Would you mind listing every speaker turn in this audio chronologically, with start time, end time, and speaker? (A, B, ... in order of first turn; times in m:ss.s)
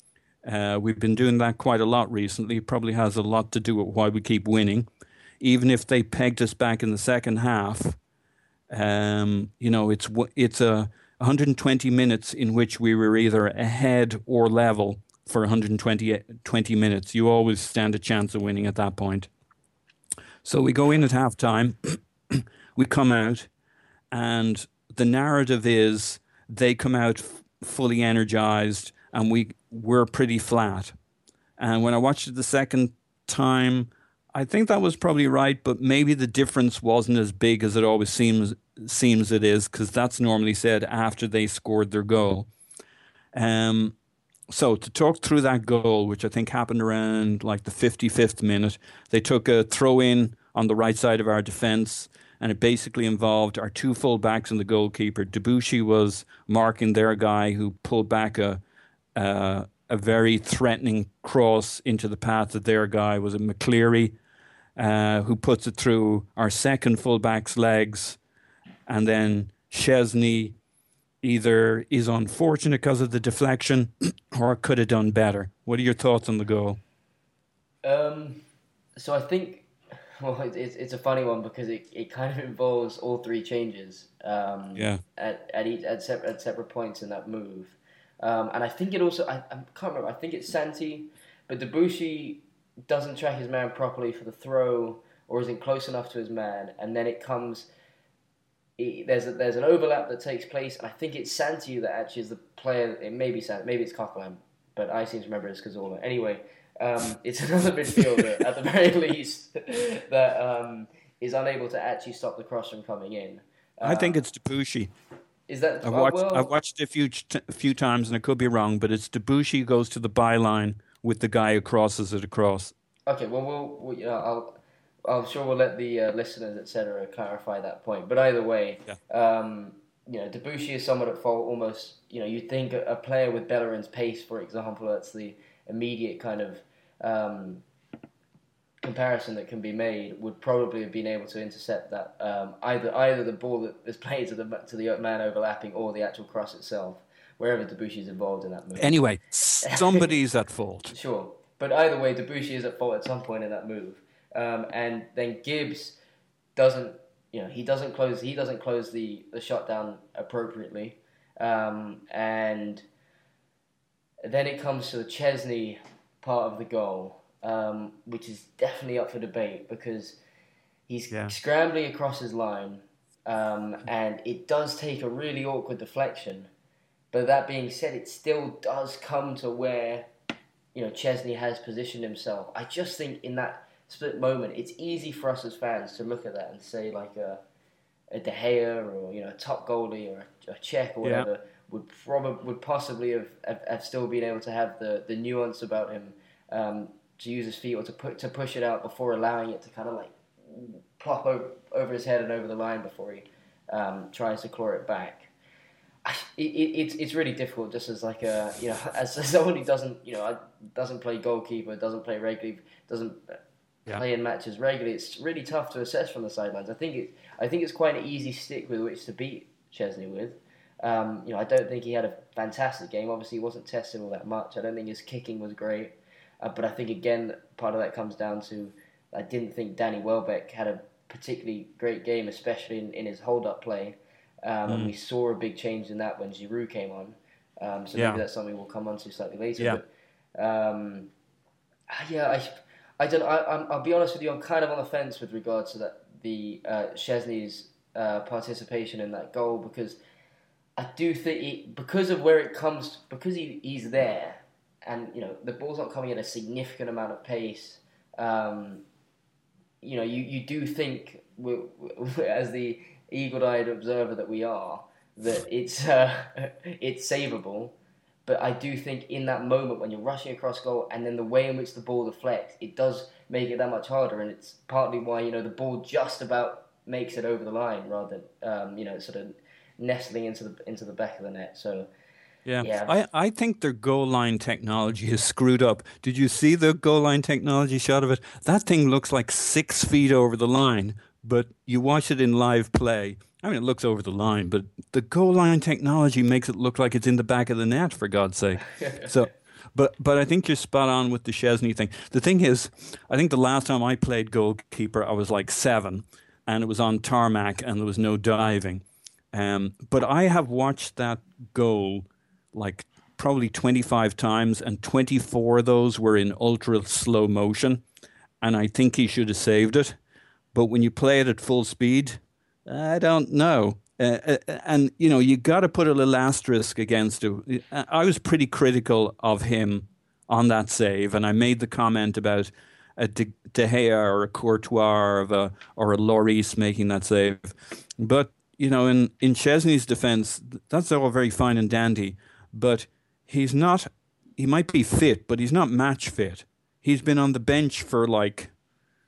0:00.4-0:04.9 A
0:05.4-0:08.0 A
0:08.7-0:19.3 A
0:20.4-0:23.5 A
0:24.1-0:30.9 A
0:31.6-0:42.5 A
0:43.3-0:43.9 A
0:44.5-0:58.6 A
0:59.2-1:04.2 A
1:04.8-1:08.2 A
1:08.9-1:10.6 A
1:11.2-1:16.8 A
1:17.8-1:18.4 B
1:19.0-1:37.7 B
1:24.8-1:25.0 A
1:38.8-1:54.2 B
1:53.8-1:54.9 A
1:55.5-1:56.5 B
1:55.8-2:02.7 A
2:03.1-2:17.6 B
2:18.8-2:29.0 B
2:28.8-2:30.9 A
2:29.6-2:30.1 B
2:30.9-2:36.0 B
2:36.6-2:42.8 B
2:44.2-2:50.2 B
2:50.9-2:56.5 B
2:57.1-3:00.1 B
3:00.7-3:07.4 B
3:08.1-3:25.3 B
3:11.0-3:11.3 A
3:26.0-4:01.1 B
3:54.7-3:54.9 A
3:57.9-3:58.2 A
4:01.9-4:10.0 B
4:10.8-4:18.8 B
4:19.8-4:27.7 B
4:28.2-4:41.9 B
4:42.4-5:17.8 A
4:42.6-4:42.9 B
5:18.4-5:20.0 A
5:20.5-5:48.5 A